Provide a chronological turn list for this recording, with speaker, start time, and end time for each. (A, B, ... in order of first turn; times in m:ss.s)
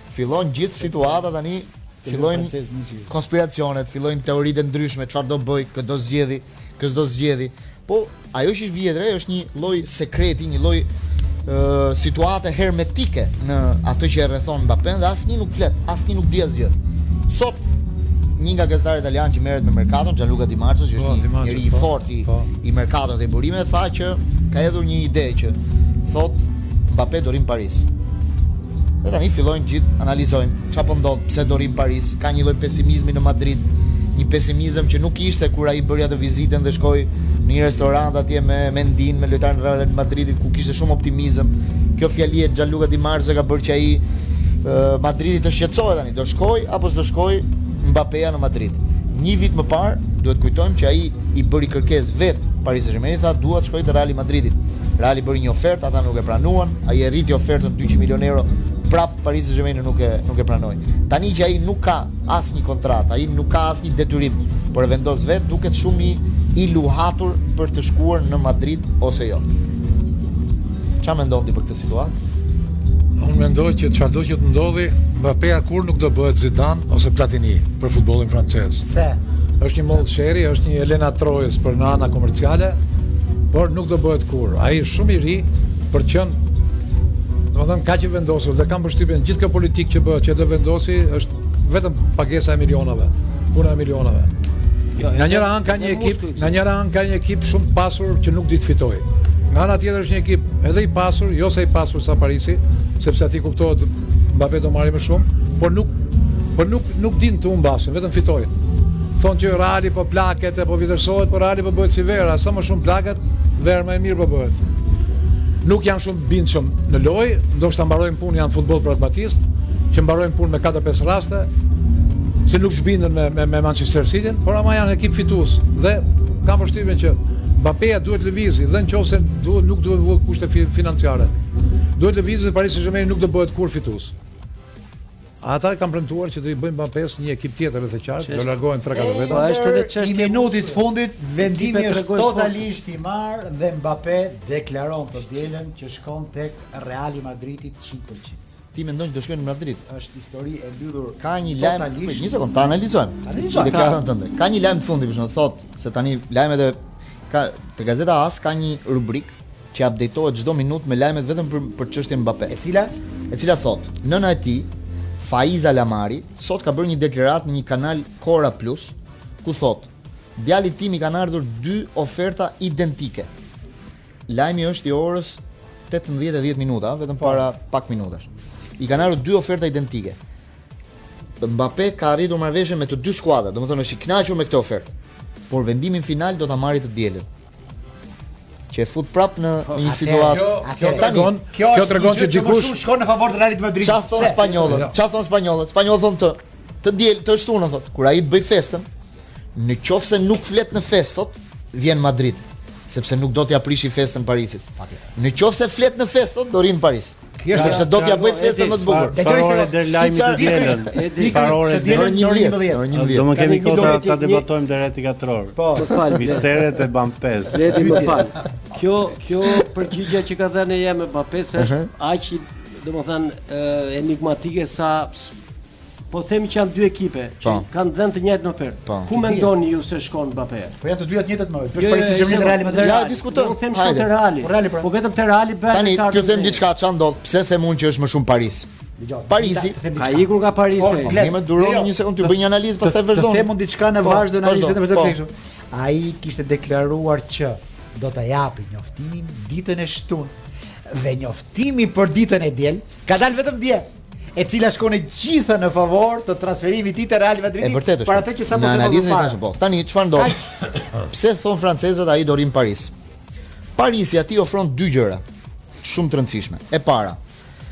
0:00.1-0:02.5 A
0:02.0-0:03.1 B
0:03.1-0:10.9 A
0:11.5-0:16.8 A
0:17.3-0:17.6 A
0:18.4-0:27.9 A
0:21.0-0:22.5 C
0:29.0-0:44.0 A
0:44.6-1:09.4 A
1:11.0-1:12.1 A
1:13.2-1:18.8 C
1:18.8-1:19.2 B
1:19.6-1:22.8 C
1:23.5-1:26.4 C
1:27.5-1:34.3 C
1:35.0-1:36.6 D
1:35.1-1:46.0 C
1:46.5-1:48.5 C
1:49.2-1:54.6 C
1:55.6-2:01.5 C
2:02.5-2:11.3 C
2:12.0-2:14.1 C
2:15.4-2:19.5 C
2:18.2-2:20.8 D
2:18.9-2:28.4 B
2:21.4-2:22.7 D
2:28.8-2:29.8 A
2:29.9-2:32.4 B
2:31.2-2:36.8 A
2:33.3-2:34.0 B
2:33.5-2:34.0 D
2:37.3-2:42.6 A
2:42.5-2:42.9 B
2:43.3-2:53.3 A
2:54.3-2:58.3 A
2:58.8-3:00.2 A
3:01.4-3:04.9 A
3:05.5-3:07.3 A
3:08.7-3:11.4 A
3:09.7-3:14.7 B
3:10.3-3:12.8 C
3:13.8-3:18.9 A
3:14.7-3:14.9 C
3:19.6-3:24.6 A
3:24.8-3:25.0 B
3:25.2-3:29.3 A
3:27.4-3:27.9 B
3:27.5-3:32.2 E
3:29.1-3:32.9 B
3:29.8-3:30.8 A
3:30.9-3:31.6 D
3:31.9-3:33.3 A
3:32.9-3:38.1 E
3:33.3-3:34.5 D
3:35.6-3:36.4 B
3:35.8-3:36.5 D
3:37.5-3:45.4 D
3:37.7-3:38.3 B
3:41.6-3:41.9 A
3:46.1-3:50.8 D
3:48.9-3:49.1 A
3:49.2-3:49.5 B
3:50.8-3:53.0 B
3:51.8-3:56.6 D
3:52.8-3:54.1 A
3:54.4-3:54.9 B
3:55.7-3:58.7 A
3:59.0-4:10.3 B
3:59.3-3:59.8 A
4:00.0-4:01.2 D
4:01.0-4:03.5 A
4:04.0-4:05.2 A
4:10.9-4:19.4 B
4:17.6-4:20.4 A
4:20.9-4:22.9 A
4:23.8-4:25.2 A
4:25.8-4:27.2 A